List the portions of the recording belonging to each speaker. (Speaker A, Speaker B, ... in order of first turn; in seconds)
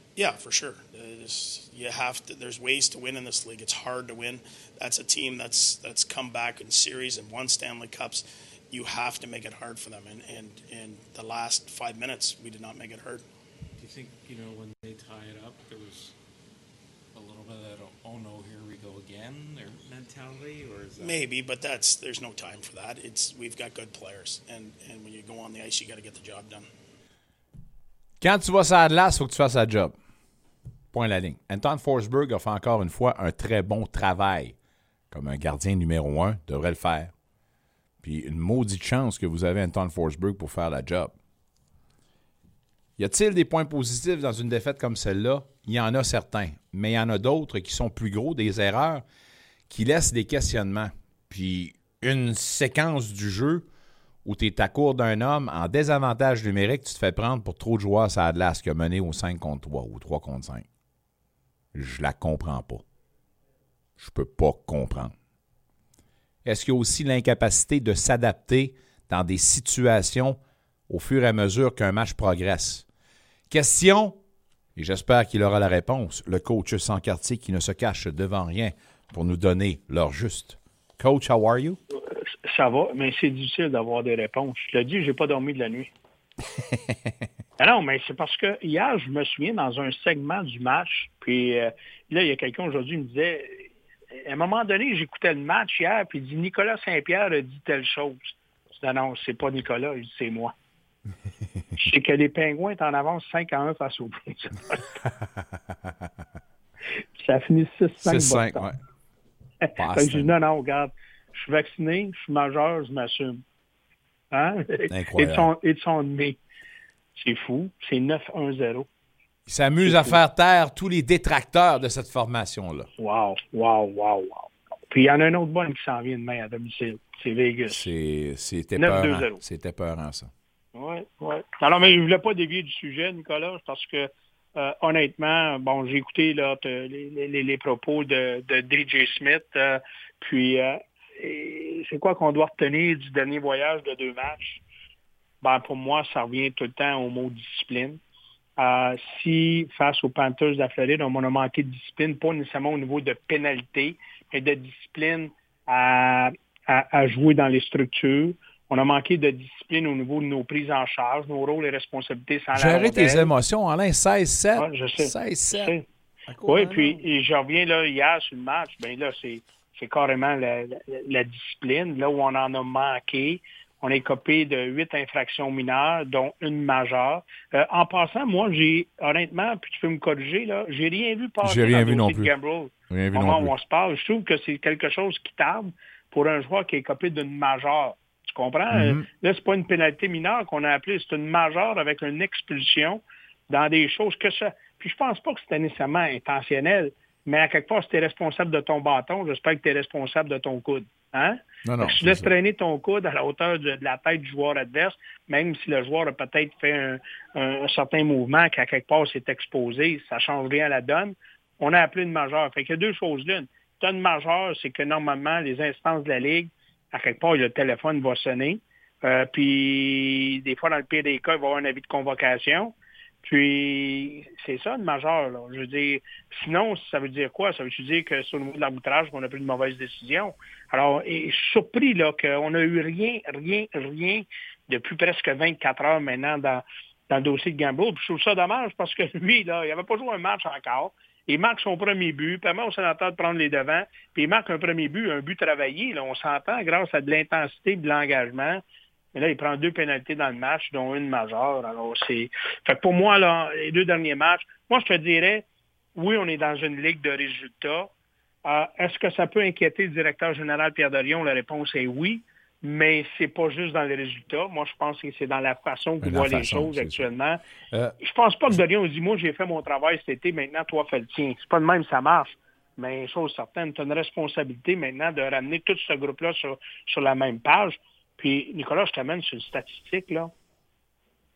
Speaker A: 0.1-13.2, 21.0-26.6
Speaker B: 13.8-16.1, 17.1-21.3
Speaker C: 28.2-29.9, 30.9-34.5, 35.1-37.1, 38.0-41.1, 43.0-49.0, 49.7-53.6, 54.2-60.6, 61.7-62.8, 64.0-65.1, 66.4-72.8, 73.5-74.2, 74.8-81.8, 108.0-108.8, 109.8-110.3, 114.9-115.5, 119.5-122.9, 127.7-130.3, 162.5-165.7, 166.3-167.0, 181.4-182.3, 182.9-183.5, 188.7-189.1, 201.6-202.3, 266.0-267.1
Speaker D: 82.1-85.9, 87.6-100.5, 101.8-104.9, 107.2-108.7, 109.6-113.4, 114.3-116.4, 117.2-118.9, 119.8-120.2, 123.0-127.8, 128.8-129.4, 130.7-144.6, 145.4-148.0, 148.6-163.3, 164.6-165.8, 166.5-248.6, 249.1-257.9, 258.4-267.4, 268.0-280.3